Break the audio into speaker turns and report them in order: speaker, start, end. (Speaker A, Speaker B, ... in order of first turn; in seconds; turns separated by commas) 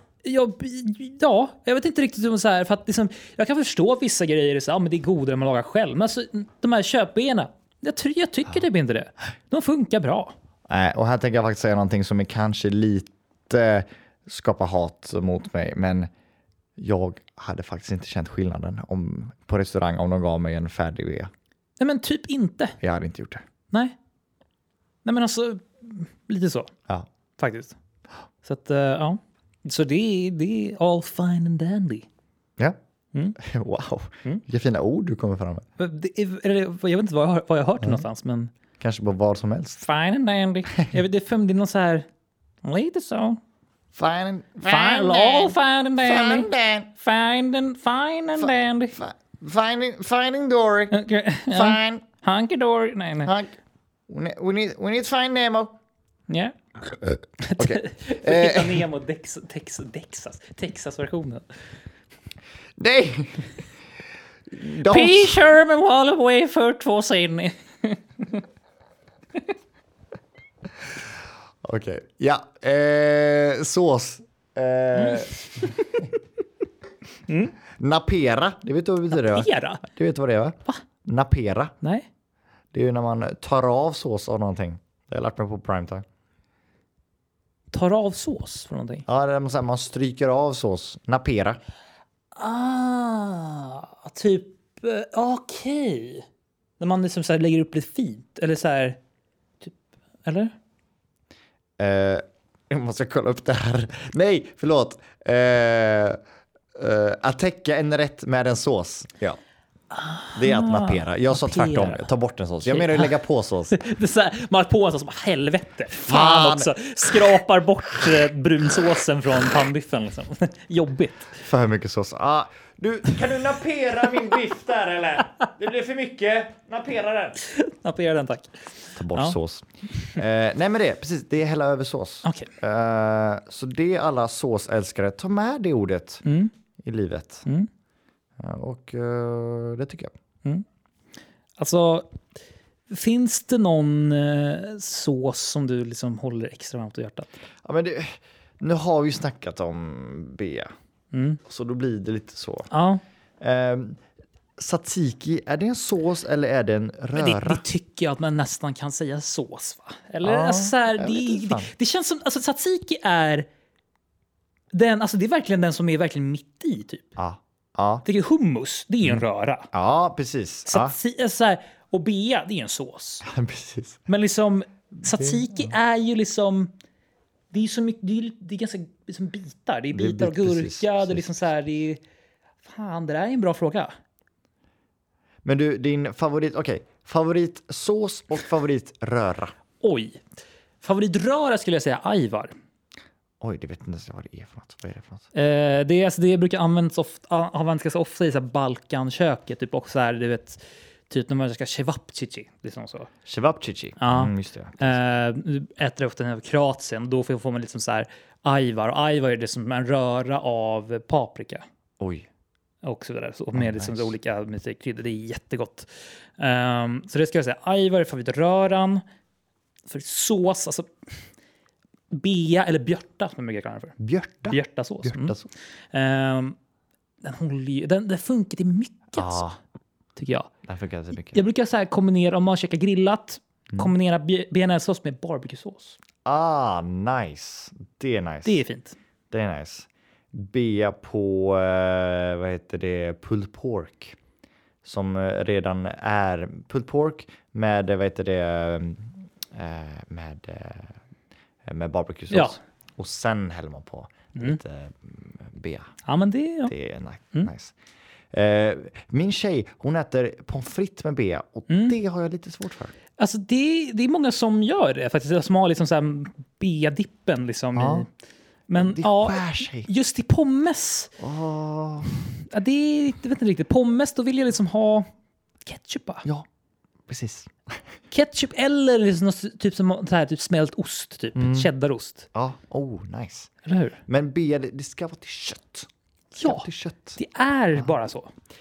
Speaker A: 0.2-10.3, Speaker B: 10.7-16.1, Speaker B: 16.8-21.3, Speaker A: 21.8-22.8, Speaker B: 22.8-23.4, Speaker A: 25.0-26.7, Speaker A: 27.4-27.7, Speaker A: 28.4-32.1, Speaker B: 33.4-35.6, Speaker A: 35.8-38.5, Speaker B: 38.8-39.8, Speaker A: 39.8-42.1, Speaker A: 42.6-43.4, Speaker B: 43.9-46.9, Speaker A: 44.6-48.9, Speaker B: 48.4-50.9, Speaker A: 50.9-53.3, Speaker B: 51.5-52.0, Speaker B: 53.2-53.5, Speaker B: 54.1-55.7, Speaker A: 56.3-56.5, Speaker B: 57.1-58.9, Speaker A: 57.4-61.5, Speaker B: 62.8-63.5, Speaker B: 64.5-65.4, Speaker A: 64.8-68.4, Speaker B: 71.6-76.1, Speaker A: 74.9-75.9, Speaker A: 77.3-77.5, Speaker B: 77.8-81.7, Speaker A: 79.1-79.8, Speaker A: 81.8-82.1, Speaker B: 82.7-86.0, Speaker A: 87.7-89.0, Speaker B: 89.0-91.6, Speaker A: 92.3-96.2, Speaker A: 96.8-99.0, Speaker A: 99.6-100.5, Speaker B: 101.8-106.2, Speaker B: 106.7-109.4, Speaker A: 109.9-112.1, Speaker B: 110.3-113.8, Speaker A: 112.6-113.1, Speaker A: 113.7-121.3, Speaker B: 115.9-117.4, Speaker B: 121.4-127.4, Speaker A: 127.4-129.4, Speaker B: 128.9-136.2, Speaker A: 132.2-132.5, Speaker A: 136.2-136.5, Speaker B: 136.8-137.4, Speaker B: 138.4-140.1, Speaker A: 141.6-142.1, Speaker A: 142.9-147.4, Speaker B: 147.6-150.7, Speaker A: 151.1-151.4, Speaker B: 151.4-152.7, Speaker A: 152.7-153.0, Speaker B: 153.4-154.0, Speaker B: 154.6-157.6, Speaker A: 157.1-163.5, Speaker B: 160.2-161.7, Speaker A: 164.7-167.1, Speaker B: 167.2-168.0, Speaker A: 168.0-169.7, Speaker B: 169.0-170.9, Speaker A: 170.7-173.2, Speaker B: 173.2-174.0, Speaker A: 174.1-176.7, Speaker B: 175.0-175.7, Speaker A: 177.5-182.0, Speaker B: 179.9-181.4, Speaker A: 182.6-183.9, Speaker B: 185.4-189.5, Speaker A: 189.8-190.2, Speaker A: 190.8-192.5, Speaker B: 193.4-195.2, Speaker A: 195.3-203.1, Speaker B: 203.2-205.0, Speaker A: 204.0-211.6, Speaker B: 212.0-212.3, Speaker A: 212.8-219.0, Speaker B: 213.5-214.1, Speaker A: 219.9-220.9, Speaker A: 222.1-225.3, Speaker B: 224.0-225.5, Speaker A: 225.9-226.6, Speaker A: 227.2-229.4, Speaker B: 229.1-229.6, Speaker A: 230.2-230.5, Speaker B: 230.6-231.4, Speaker A: 231.3-236.0, Speaker B: 236.2-238.6, Speaker A: 238.4-239.0, Speaker B: 239.3-244.2, Speaker B: 244.8-250.9, Speaker B: 251.6-255.9, Speaker A: 252.3-252.6, Speaker A: 256.1-256.7, Speaker B: 256.7-257.7, Speaker B: 258.3-262.9, Speaker A: 261.7-261.9, Speaker A: 263.2-268.1, Speaker B: 267.7-268.1, Speaker A: 268.7-271.1, Speaker B: 268.8-269.9, Speaker B: 271.2-272.1, Speaker A: 272.4-275.1, Speaker A: 275.6-276.2, Speaker B: 277.1-277.8, Speaker A: 278.1-282.3, Speaker B: 281.3-281.7, Speaker B: 282.3-283.5, Speaker A: 283.6-284.0, Speaker B: 284.1-287.2, Speaker A: 286.4-286.6, Speaker A: 287.2-288.3